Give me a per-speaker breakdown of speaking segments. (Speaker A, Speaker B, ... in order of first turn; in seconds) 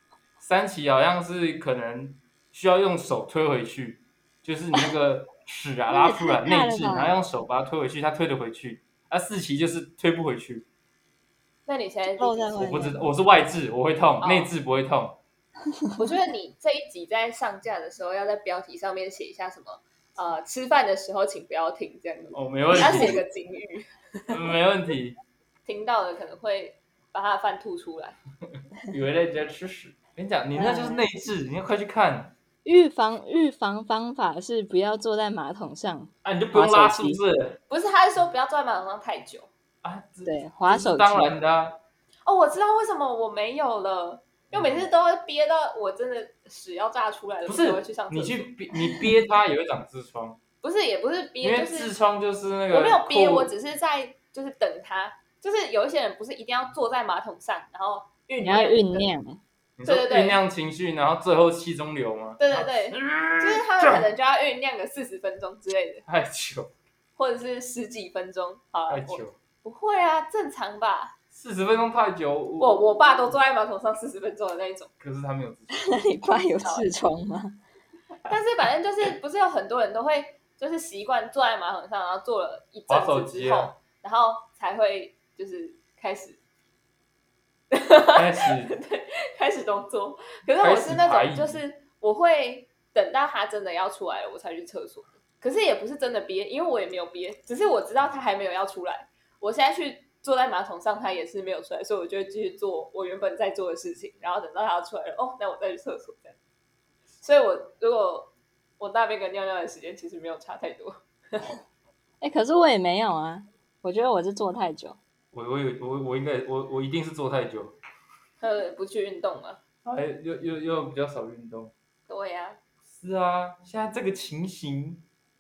Speaker A: 0.4-10.7, 12.6-15.2, 22.3-23.2, 24.3-25.2, 28.9-32.3, 36.2-37.6, 39.8-41.8, 44.5-44.9, 47.5-50.4, 51.4-53.5, 59.8-64.1, 66.1-66.7, 68.9-69.4, 71.3-73.0, 75.0-76.0, 82.9-83.7, 88.1-88.7, 90.6-91.6, 115.3-117.8, 119.8-121.7, 122.9-125.0
Speaker B: 5.9-7.2, 12.1-13.1, 15.8-16.1, 22.8-23.2, 30.6-31.0, 32.6-37.2, 40.2-41.3, 58.4-59.4, 75.7-77.6, 112.2-115.0
Speaker C: 11.7-12.5, 14.2-14.5, 16.0-24.5, 25.7-28.2, 37.7-39.5, 42.3-48.5, 50.6-51.9, 52.7-59.1, 59.9-60.4, 62.4-66.0, 67.2-71.2, 72.6-74.9, 76.3-76.9, 78.3-86.4, 87.7-106.4, 107.2-111.5, 118.4-119.6, 122.1-122.6